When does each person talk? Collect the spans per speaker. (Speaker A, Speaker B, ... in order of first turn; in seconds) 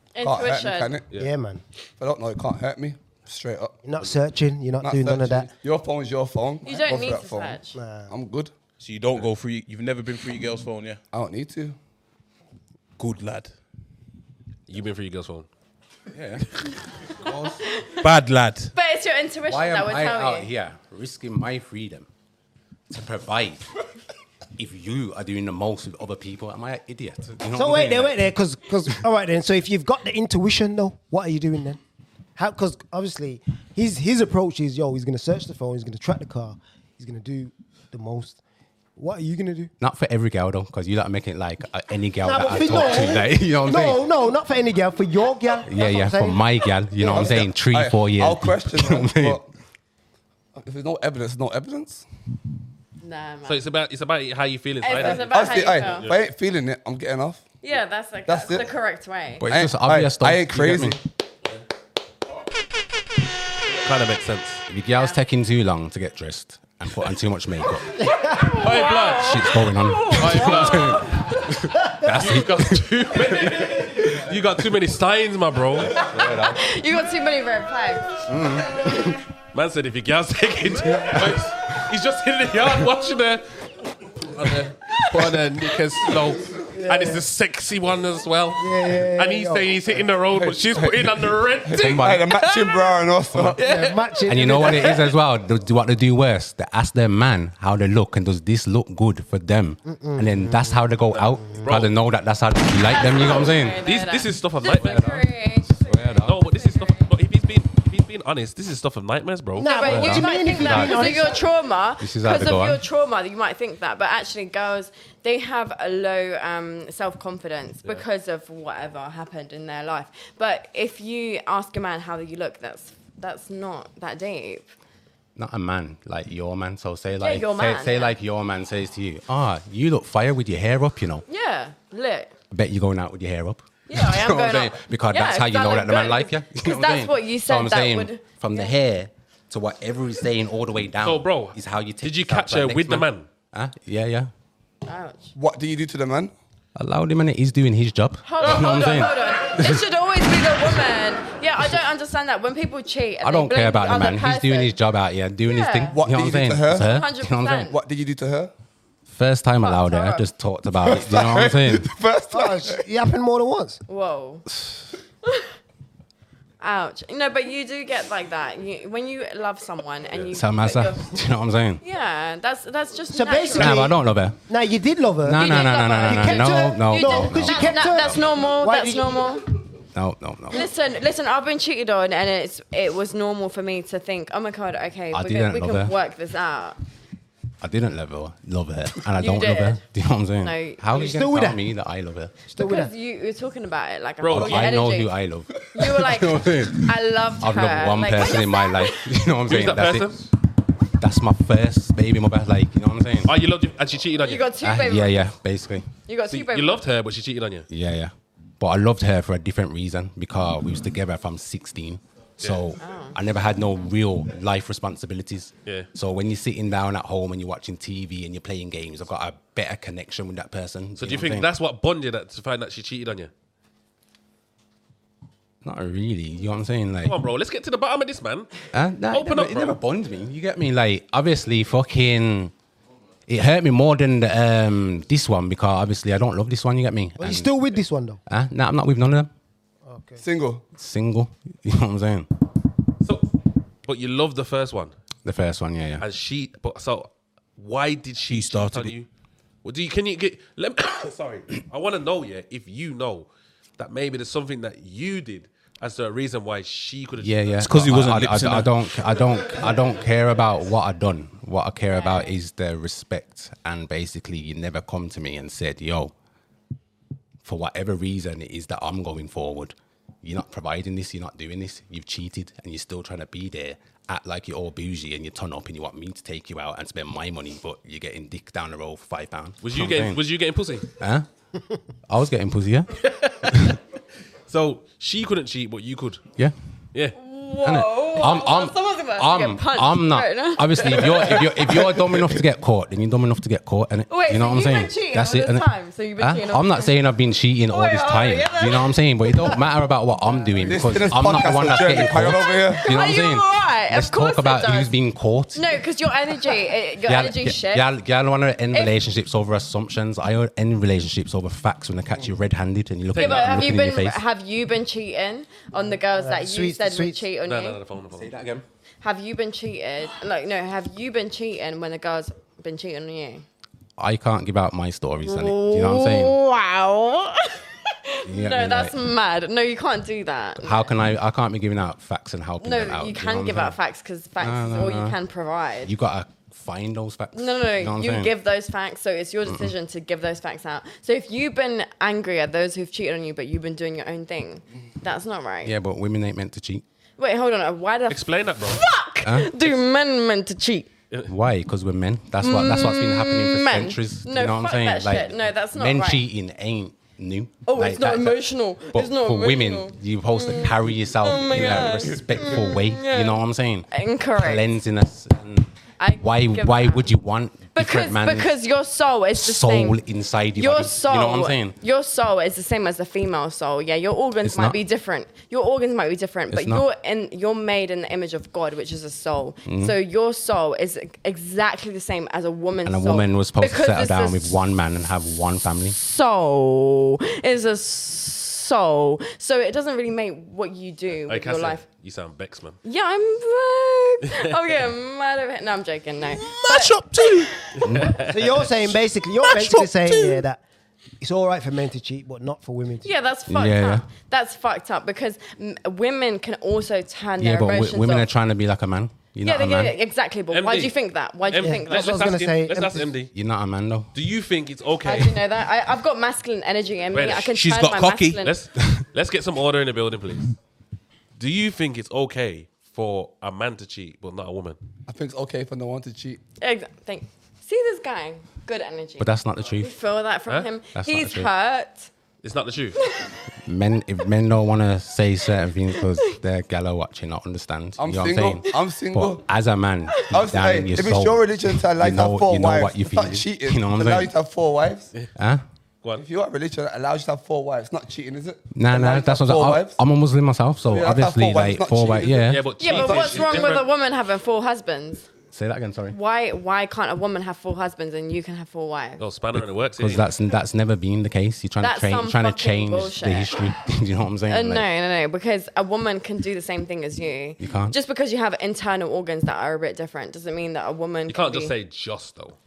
Speaker A: 0.1-1.0, 6.6-7.8, 17.6-18.1, 18.7-20.5, 53.0-53.6, 54.8-56.1, 57.6-59.5, 68.2-71.5, 76.0-78.2, 102.8-107.1, 109.6-124.7, 127.2-128.1, 131.3-132.3, 133.9-138.7, 144.8-145.3, 148.2-154.7, 155.4-156.0, 156.8-157.8, 159.6-160.2, 163.9-164.4, 165.2-165.5, 166.6-171.1, 171.8-173.9, 175.4-179.5, 180.5-186.8, 189.2-189.8, 190.4-191.0, 192.6-195.2, 195.7-199.2, 204.2-205.3, 206.1-206.8, 212.8-213.2, 261.9-262.3, 287.1-291.6, 294.1-296.9, 297.7-299.6, 302.6-304.9, 305.5-307.9, 313.1-317.8, 319.0-323.4, 325.2-330.9, 332.6-335.9, 337.3-345.7, 347.2-350.9, 352.4-356.2, 357.7-364.6, 366.0-367.1, 367.7-370.0, 370.5-384.6, 385.9-391.8, 392.8-397.6, 403.0-408.3, 409.4-412.3, 415.0-418.6, 426.6-432.1, 432.9-433.3, 452.8-455.3, 456.1-459.2, 461.8-463.6, 464.5-471.7
Speaker B: 0.2-1.0, 2.0-3.8, 4.8-8.5, 11.1-11.8, 47.0-49.5, 50.6-52.0, 55.0-57.4, 58.2-58.7, 59.5-61.0, 90.3-93.6, 145.3-146.3, 155.9-156.9, 157.7-158.5, 160.8-162.8, 240.2-240.6, 291.6-292.4, 300.6-302.9, 425.1-426.4, 438.0-439.4, 440.3-445.1, 446.1-450.0, 450.9-453.7
Speaker C: 1.1-1.6, 3.8-5.5, 7.7-8.1, 27.5-31.8, 32.4-38.4, 39.0-39.7, 42.2-47.4, 86.7-87.2, 88.6-89.9, 93.6-95.0, 99.8-100.8, 109.6-111.4, 162.3-163.8, 173.1-179.2, 190.9-191.6, 192.5-192.9, 237.2-238.2, 239.8-240.2, 316.1-317.2, 398.3-400.6, 401.2-403.1, 411.6-413.1
Speaker D: 8.8-11.0, 13.0-13.5, 18.0-18.7, 248.2-248.9, 257.6-258.8, 396.3-397.6, 398.7-400.4, 417.5-418.4
Speaker E: 14.7-15.5, 53.4-56.1, 63.8-64.6, 68.4-71.2, 71.9-76.0, 79.5-83.4, 84.2-92.7, 93.5-94.0, 101.1-101.9, 103.8-105.0, 106.2-110.2, 141.0-143.3, 148.4-149.0, 194.2-194.8, 199.4-200.3, 203.2-204.5, 206.2-207.7, 212.4-212.7, 221.0-223.3, 227.0-229.8, 243.8-244.9, 246.0-249.1, 249.6-257.6, 279.6-280.9, 283.0-283.8, 284.5-286.2, 313.1-313.8, 317.4-318.3, 348.1-348.9, 391.2-392.8, 397.7-398.5, 410.5-410.9, 411.4-413.3, 414.1-415.4, 417.1-417.5, 418.4-420.6, 421.4-424.8, 432.4-433.0, 452.4-453.9, 459.2-460.2, 471.3-472.6
Speaker F: 16.1-16.4, 17.2-17.6, 19.5-22.1, 22.9-23.7, 24.6-28.2, 39.8-44.1, 45.6-49.4, 59.4-61.0, 64.7-68.1, 69.1-73.8, 75.9-76.6, 78.2-79.2, 81.2-81.4, 91.8-92.3, 94.3-103.8, 104.8-106.5, 109.9-111.1, 112.0-112.8, 125.3-131.2, 132.5-144.3, 146.8-149.8, 153.2-157.7, 159.1-161.9, 170.3-171.8, 173.5-174.4, 175.2-178.2, 179.9-180.7, 185.1-185.9, 187.6-192.3, 194.3-200.1, 201.0-203.3, 204.6-205.9, 207.7-221.5, 225.6-227.2, 228.7-232.5, 233.3-237.7, 238.2-239.3, 240.7-242.3, 245.2-246.0, 257.2-266.1, 267.4-280.2, 280.9-281.3, 282.1-283.8, 287.6-305.8, 307.0-314.2, 318.1-318.6, 324.0-326.4, 328.2-328.9, 330.6-333.8, 334.4-335.2, 335.8-338.3, 339.4-339.7, 345.6-346.8, 349.2-349.5, 351.2-368.5, 369.3-371.8, 374.4-374.8, 376.5-376.8, 379.6-379.9, 382.8-386.0, 397.8-398.2, 403.5-404.1, 407.4-409.9, 413.3-414.1, 429.2-429.9, 430.9-431.5, 433.6-444.3, 445.4-445.6, 448.7-452.7, 455.5-456.2, 459.5-464.9, 467.6-467.9